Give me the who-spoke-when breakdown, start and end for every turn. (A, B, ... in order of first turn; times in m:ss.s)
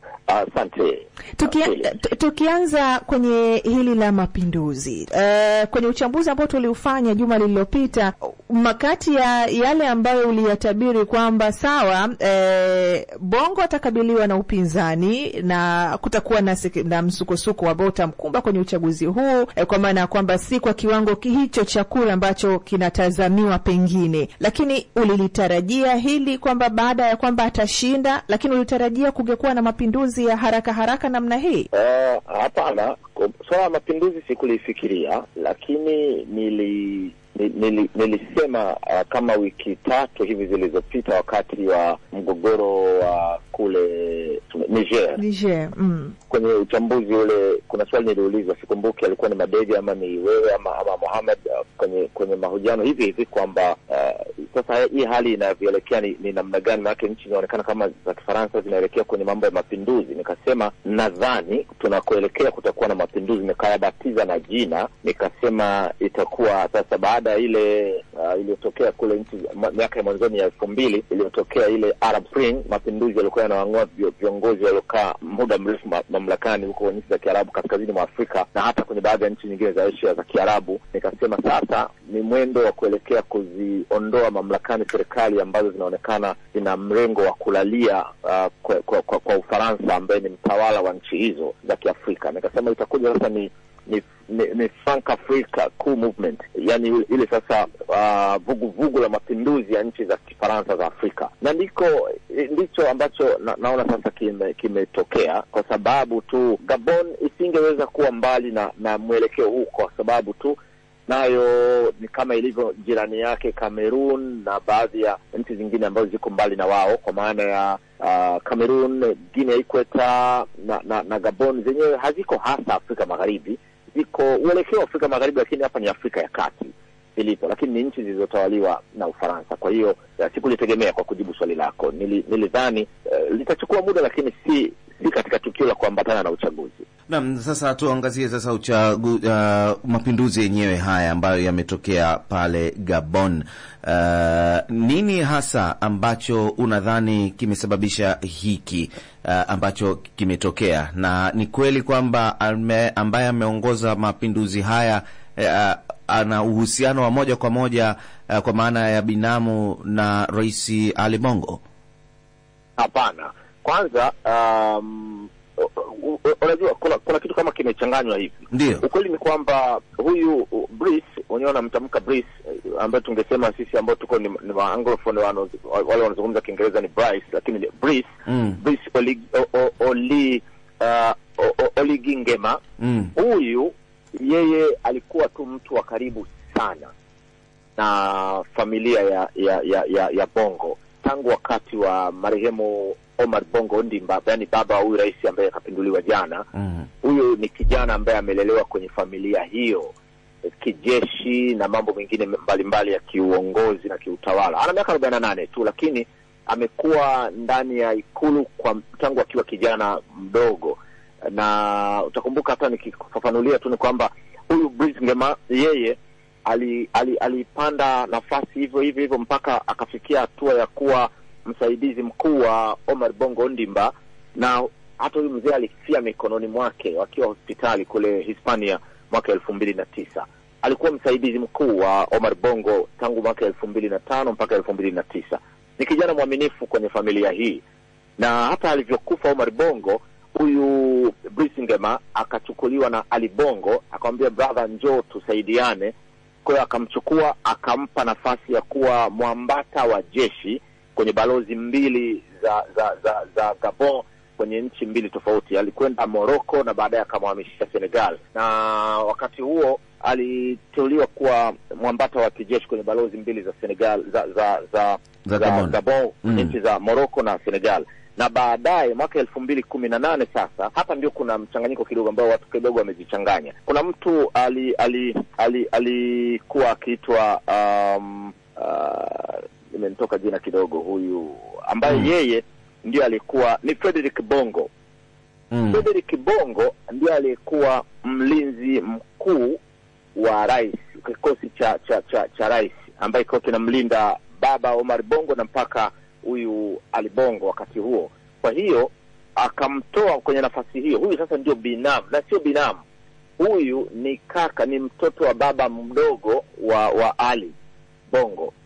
0:00.3-0:01.9 A
0:01.4-0:31.7 B
0:31.7-0:45.2 A
0:45.2-0:46.1 B
0:46.3-2:16.8 A
2:17.1-2:41.6 C
2:42.8-3:02.6 A
2:48.5-2:48.8 C
2:58.3-2:58.6 C
3:02.8-3:03.1 C
3:03.2-3:06.9 A
3:07.8-3:16.4 A
3:16.6-3:16.8 C
3:17.0-3:19.9 A
3:20.6-3:30.8 A
3:31.3-3:57.6 A
3:58.2-4:05.9 A
4:06.4-4:44.7 A
4:25.3-4:25.8 C
4:45.5-4:45.8 C
4:45.7-4:49.6 A
4:50.2-5:02.8 A
5:03.4-5:07.5 A
5:08.1-5:08.5 A